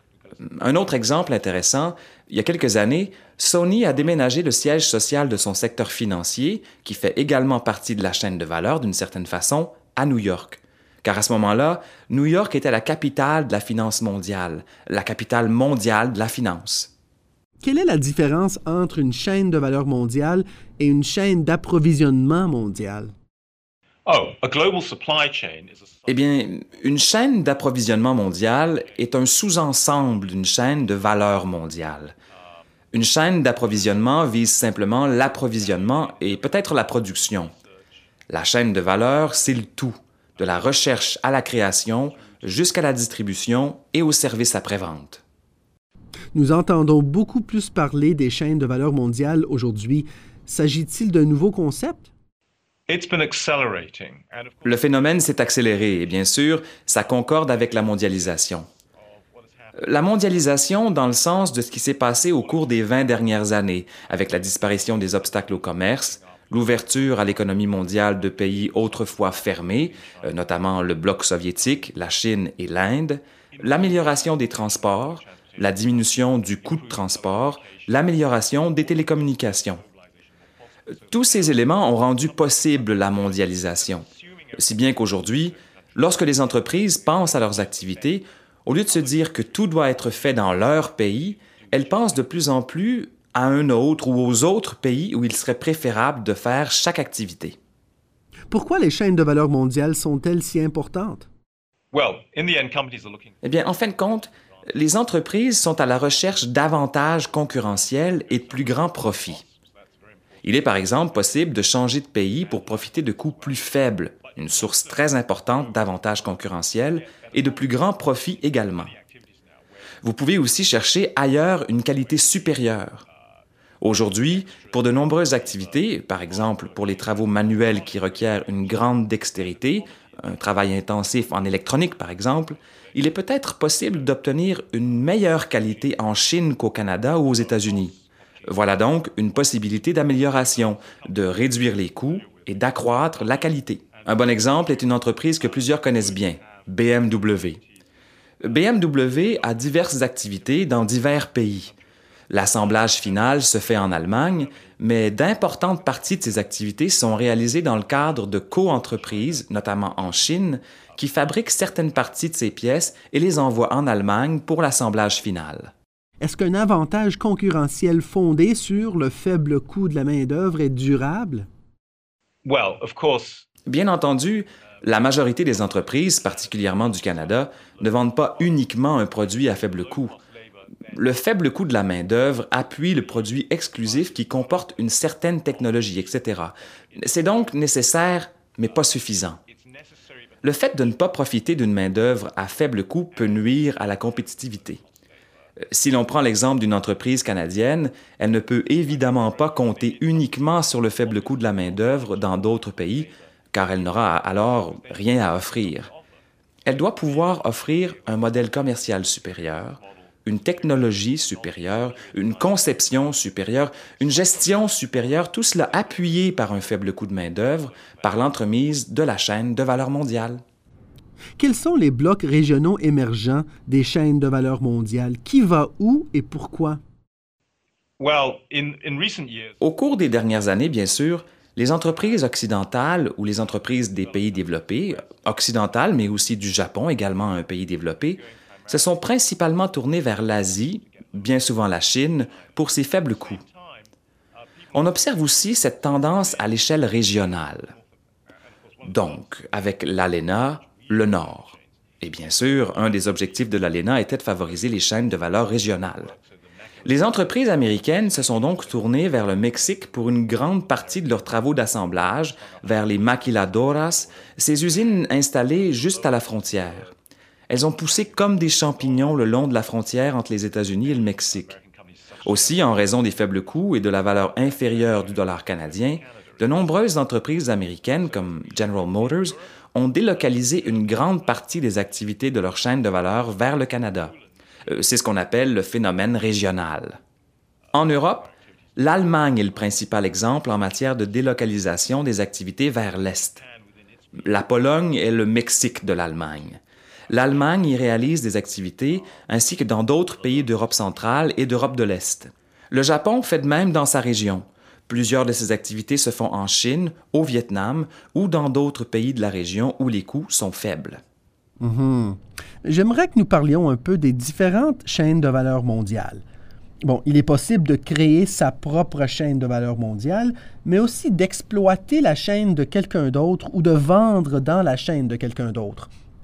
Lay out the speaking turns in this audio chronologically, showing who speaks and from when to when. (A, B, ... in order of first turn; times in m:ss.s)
0:00.4-0:16.9 A
0:17.6-0:23.1 B
0:24.0-0:25.8 C
0:26.1-0:32.1 A
0:32.9-0:37.5 A
0:38.3-0:45.2 A
0:46.3-0:52.1 B
0:52.9-0:54.5 C
0:54.6-0:58.7 A
0:59.8-1:19.8 A
1:21.1-1:37.6 A
1:38.5-1:41.3 B
1:41.9-1:43.3 C
1:43.4-1:49.4 A
1:50.4-1:58.9 A
2:00.0-2:03.0 A
2:03.8-2:27.6 A
2:28.4-2:31.7 A
2:32.3-2:45.7 A
2:46.2-2:51.5 B
2:52.4-2:53.4 C
2:53.7-3:00.2 A
3:00.9-3:09.4 A
3:10.4-3:14.8 A
3:15.7-3:25.9 A
3:26.6-3:40.4 A
3:41.4-3:46.8 B
3:48.0-3:49.6 C
3:49.6-4:03.4 A
4:04.7-4:07.7 A
4:08.8-4:16.1 A
4:16.8-4:26.9 A
4:27.5-4:31.6 A
4:32.2-4:44.1 A
4:44.7-4:47.0 A
4:47.7-4:53.4 A
4:54.2-5:11.0 A
5:11.6-5:16.2 B
5:16.8-5:25.9 B